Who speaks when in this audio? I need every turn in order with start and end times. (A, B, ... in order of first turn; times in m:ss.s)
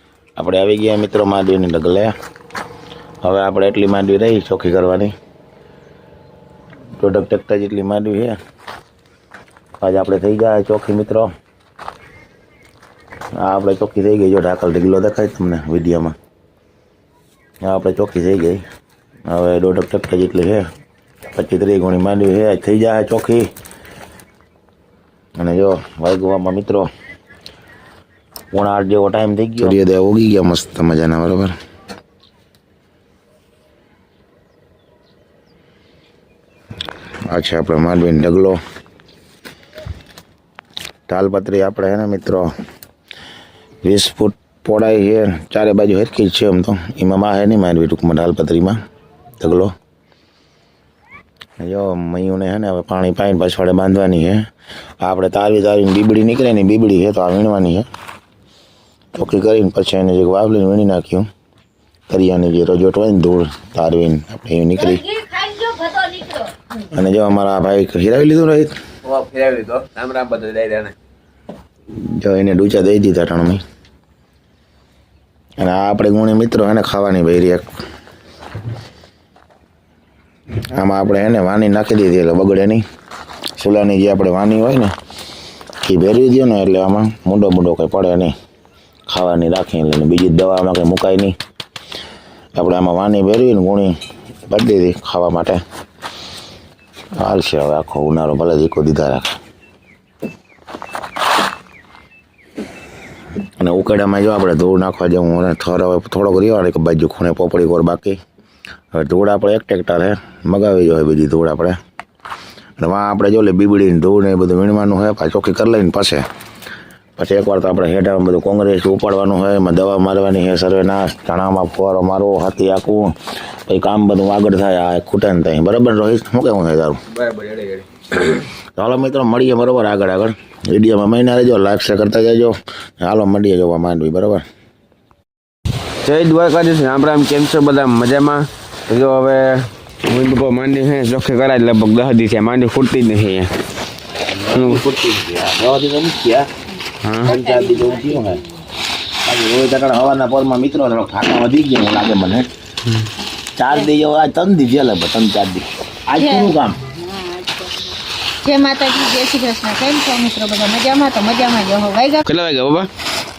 0:00.4-0:02.1 A
0:03.2-0:05.1 A
0:07.0-0:08.4 A
0:09.8-0:11.3 A
0:13.4-0:16.1 A
0:17.6-0:18.6 A
0:19.3-0:20.6 A
0:21.3-0:23.4 A
0:25.4-0:26.9 A
0:28.5-0:31.5 A
0:37.3-0:38.6 A
0:41.1-0:42.5 A
0:43.8-0:48.8 A
0:49.4-0:49.7 A
0:51.6-0:54.4 A
0:55.0-0:57.8 A
0:59.1-1:01.3 A
1:02.1-1:05.0 A
1:04.8-1:06.5 B
1:06.9-1:08.7 A
1:09.0-1:10.9 C
1:12.0-1:13.6 A
1:15.6-1:17.6 A
1:20.7-1:22.8 A
1:23.6-1:24.9 A
1:25.8-1:28.3 A
1:29.1-1:31.3 A
1:32.6-1:33.9 A
1:34.5-1:35.6 A
1:37.2-1:39.3 A
1:43.6-1:48.2 A
1:48.9-1:51.8 A
1:52.8-1:56.2 A
1:57.2-2:03.1 A
2:03.7-2:07.0 A
2:07.1-2:08.4 C
2:08.8-2:14.4 A
2:16.0-2:23.5 C
2:24.3-2:26.5 A
2:24.5-2:24.8 C
2:27.0-2:27.3 C
2:27.2-2:28.4 A
2:27.2-2:28.4 B
2:29.2-2:32.5 A
2:33.6-2:36.8 A
2:36.2-2:42.2 B
2:42.2-2:42.9 C